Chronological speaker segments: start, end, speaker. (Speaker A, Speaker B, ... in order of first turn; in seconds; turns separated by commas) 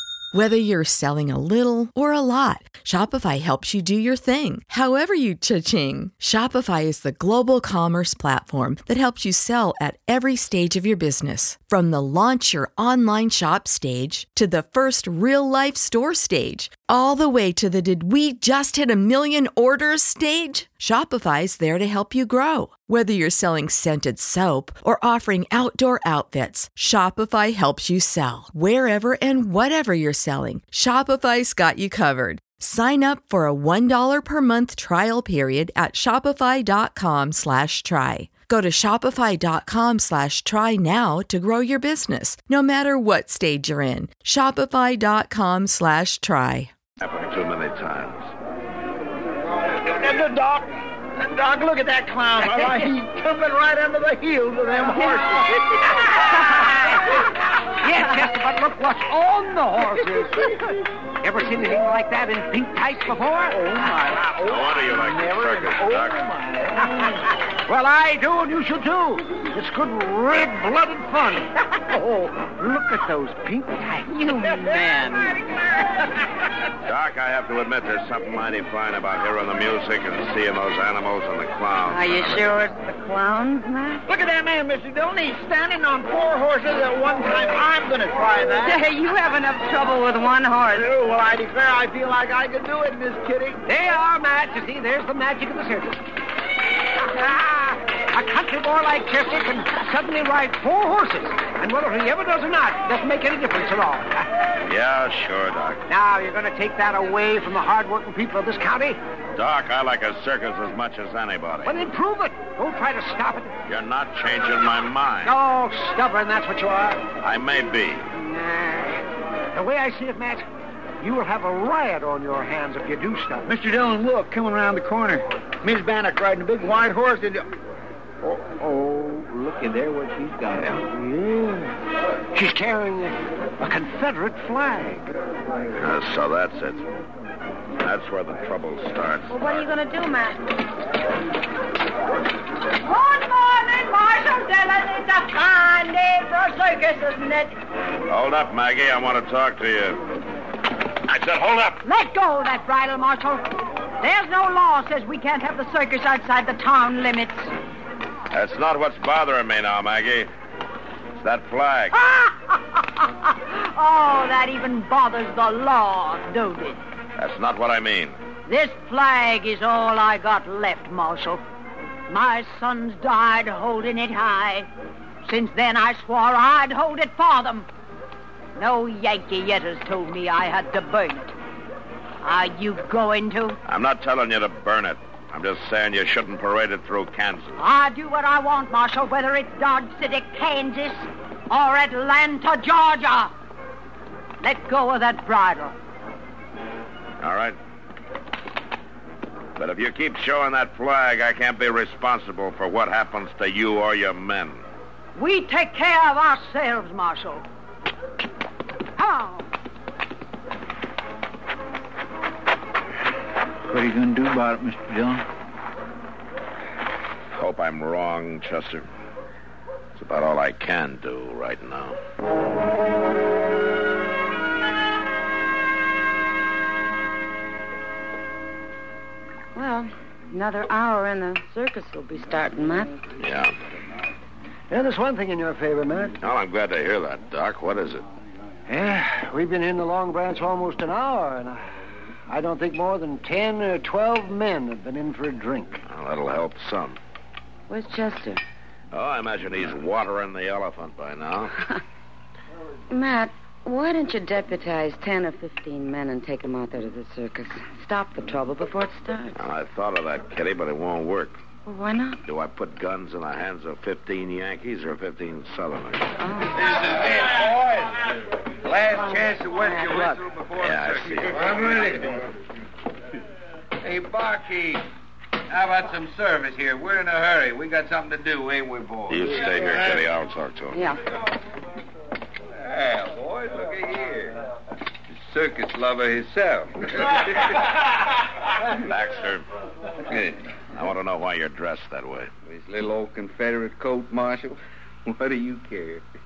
Speaker A: 0.3-46.7, Speaker B: 47.0-48.3, Speaker C: 49.9-50.6, Speaker C: 51.2-55.8, Speaker D: 57.8-60.5, Speaker D: 61.2-63.9, Speaker C: 63.5-66.8, Speaker B: 64.4-66.2, Speaker D: 65.3-65.9, Speaker D: 66.8-74.6, Speaker E: 74.0-75.4, Speaker B: 76.8-82.6, Speaker E: 81.8-84.0, Speaker C: 84.1-88.8, Speaker E: 88.6-90.9, Speaker C: 90.8-93.6, Speaker D: 93.7-96.0, Speaker D: 97.1-104.2, Speaker B: 104.6-105.8, Speaker D: 105.9-109.0, Speaker B: 109.3-111.8, Speaker D: 111.6-113.6, Speaker B: 113.7-115.3, Speaker D: 115.2-117.1, Speaker B: 117.2-118.1, Speaker D: 118.5-118.9, Speaker D: 119.5-120.5, Speaker D: 121.0-123.5, Speaker C: 123.5-127.5, Speaker C: 128.2-131.0, Speaker D: 130.8-131.7, Speaker D: 132.3-135.1, Speaker B: 135.8-136.9, Speaker B: 137.8-139.3, Speaker E: 139.3-140.4, Speaker F: 142.8-147.6, Speaker B: 148.1-150.0, Speaker B: 151.1-151.8, Speaker F: 151.8-157.5, Speaker B: 158.3-160.3, Speaker B: 161.2-161.9, Speaker F: 161.9-166.8, Speaker B: 167.2-168.2, Speaker F: 168.5-171.4, Speaker F: 172.1-174.7, Speaker F: 175.2-177.7, Speaker F: 178.6-181.3, Speaker F: 182.2-183.6, Speaker B: 183.7-187.6, Speaker F: 187.6-193.3, Speaker F: 194.4-195.7, Speaker B: 197.2-197.6, Speaker B: 199.6-204.6, Speaker F: 205.2-207.4, Speaker F: 209.0-209.5, Speaker C: 213.7-215.2, Speaker B: 217.3-218.8, Speaker B: 219.9-222.0, Speaker E: 229.5-233.0, Speaker B: 233.2-233.6, Speaker D: 234.7-236.2, Speaker B: 236.2-238.0, Speaker D: 238.7-241.6, Speaker D: 242.3-245.8, Speaker B: 245.8-247.0, Speaker E: 247.7-248.4, Speaker B: 248.9-251.6, Speaker E: 252.9-259.4, Speaker B: 259.4-261.4, Speaker E: 261.6-262.2, Speaker B: 262.2-266.1, Speaker E: 266.2-266.9, Speaker G: 266.5-272.2, Speaker E: 268.9-270.2, Speaker B: 270.6-271.7, Speaker G: 273.8-274.8, Speaker G: 275.5-280.0, Speaker B: 279.1-280.9, Speaker E: 280.7-281.0, Speaker G: 282.6-284.4, Speaker G: 285.1-287.5, Speaker B: 288.8-289.4, Speaker G: 290.1-290.4, Speaker B: 290.7-292.3, Speaker G: 292.4-296.0